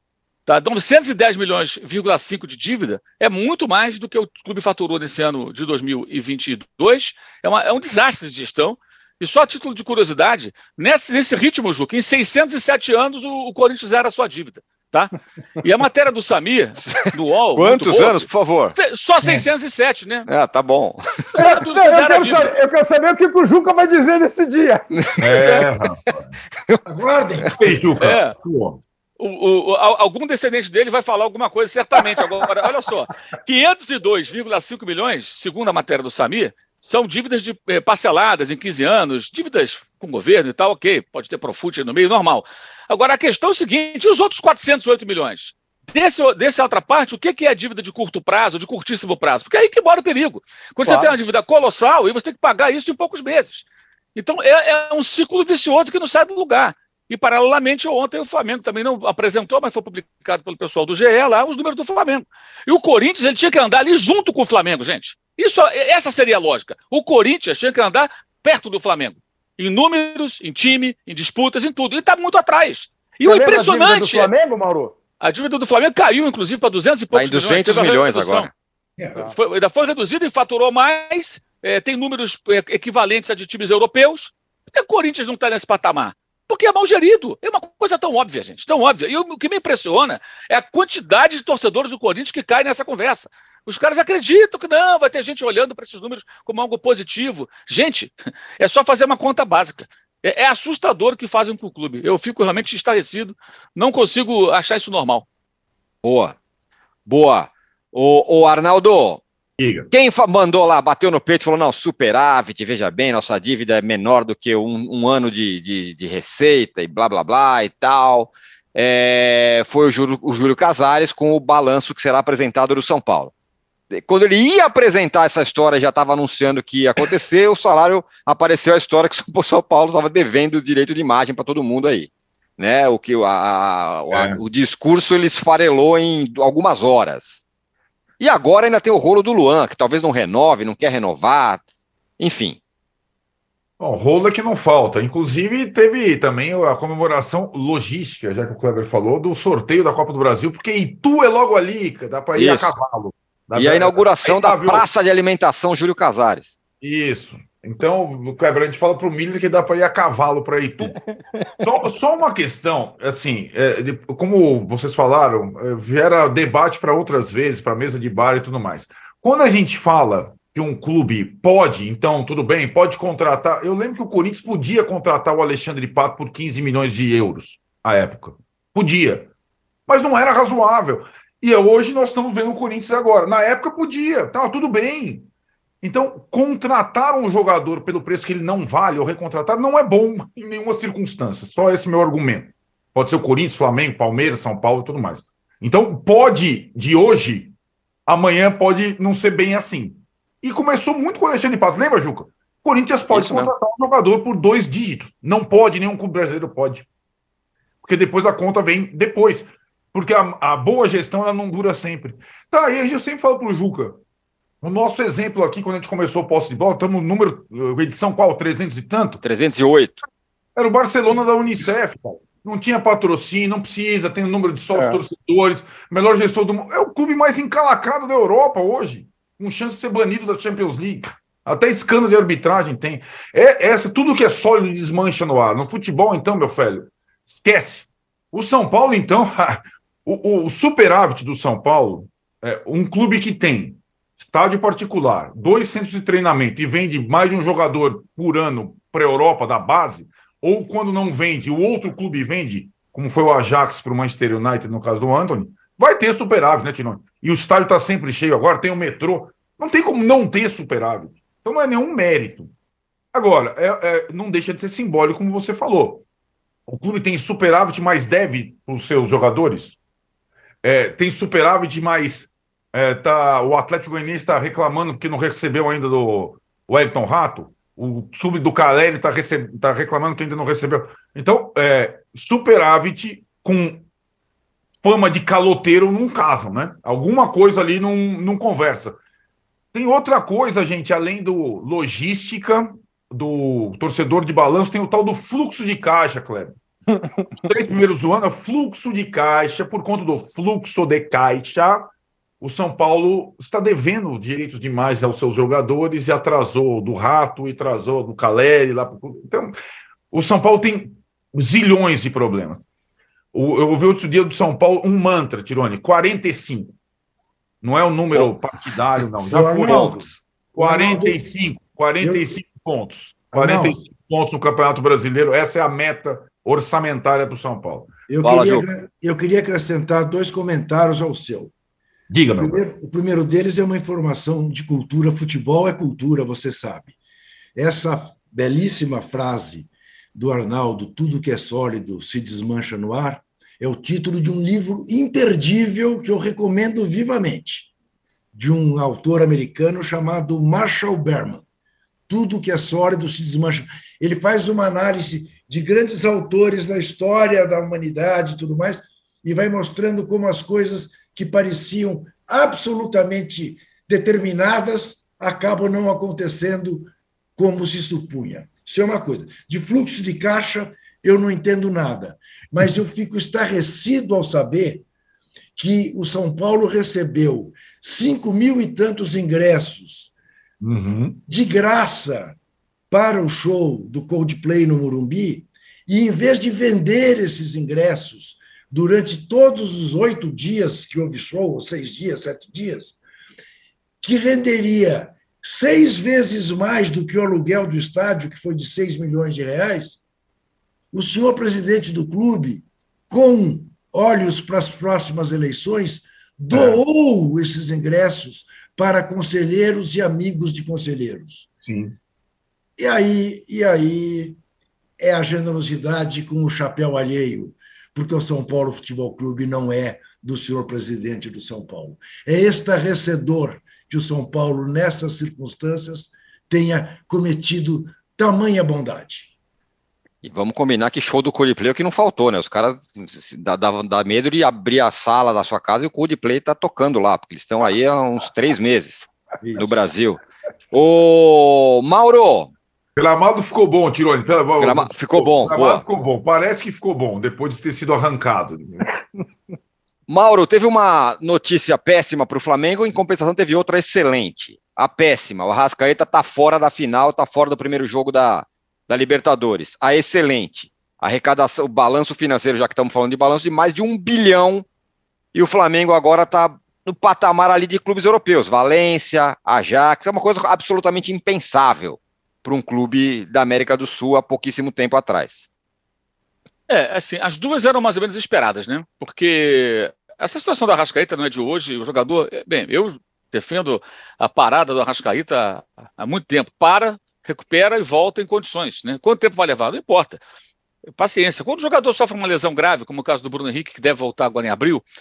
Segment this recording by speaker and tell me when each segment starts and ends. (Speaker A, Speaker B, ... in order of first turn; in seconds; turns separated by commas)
Speaker A: 0.5-20.3, Speaker B: 16.9-18.7, Speaker B: 20.3-21.2, Speaker A: 21.3-22.5, Speaker C: 21.3-25.5, Speaker B: 25.0-25.2, Speaker D: 25.2-26.3, Speaker A: 25.3-25.6, Speaker E: 26.8-27.5, Speaker D: 27.5-28.8, Speaker A: 28.0-28.4, Speaker A: 29.2-53.6, Speaker C: 50.9-51.1, Speaker A: 54.1-74.3, Speaker C: 73.2-74.9, Speaker A: 75.2-78.5, Speaker B: 77.1-78.5, Speaker A: 79.2-105.3, Speaker B: 106.0-106.3, Speaker B: 107.0-109.2, Speaker D: 109.6-109.9, Speaker B: 109.9-123.3, Speaker B: 123.9-137.4, Speaker D: 134.1-134.4, Speaker B: 138.2-141.6, Speaker B: 142.2-142.6, Speaker D: 143.8-154.8, Speaker B: 152.3-152.7, Speaker B: 153.6-156.6, Speaker D: 156.8-161.0, Speaker D: 161.6-179.3, Speaker D: 179.9-185.3, Speaker D: 185.8-197.5, Speaker D: 198.1-206.8, Speaker B: 203.1-203.5, Speaker D: 207.8-214.0, Speaker D: 214.6-219.2, Speaker B: 219.2-220.0, Speaker D: 220.6-262.5, Speaker D: 263.1-266.0, Speaker D: 266.7-269.8, Speaker D: 270.6-283.8, Speaker D: 284.8-289.0, Speaker D: 289.7-296.5, Speaker C: 296.9-297.3, Speaker D: 297.4-309.5, Speaker D: 310.1-312.6, Speaker D: 313.3-316.7, Speaker D: 317.6-328.0, Speaker E: 319.3-321.2, Speaker B: 319.6-320.2, Speaker E: 322.0-322.4, Speaker E: 323.3-323.8, Speaker E: 328.1-331.5, Speaker B: 328.2-328.7, Speaker D: 332.1-332.6, Speaker E: 332.4-336.9, Speaker E: 337.5-347.7, Speaker E: 348.3-351.4, Speaker E: 352.1-374.8, Speaker E: 375.6-380.1, Speaker D: 380.6-381.2, Speaker E: 381.3-382.4, Speaker E: 382.9-393.0, Speaker E: 394.0-400.0, Speaker E: 400.9-411.5, Speaker D: 406.5-406.8, Speaker D: 411.6-411.9, Speaker E: 412.8-414.4, Speaker E: 415.0-429.3, Speaker B: 430.2-440.2, Speaker E: 439.4-439.8, Speaker B: 440.7-442.5, Speaker D: 442.9-448.9, Speaker B: 444.6-445.8, Speaker B: 450.1-464.6, Speaker B: 465.3-475.5, Speaker A: 476.7-490.2, Speaker A: 491.0-494.8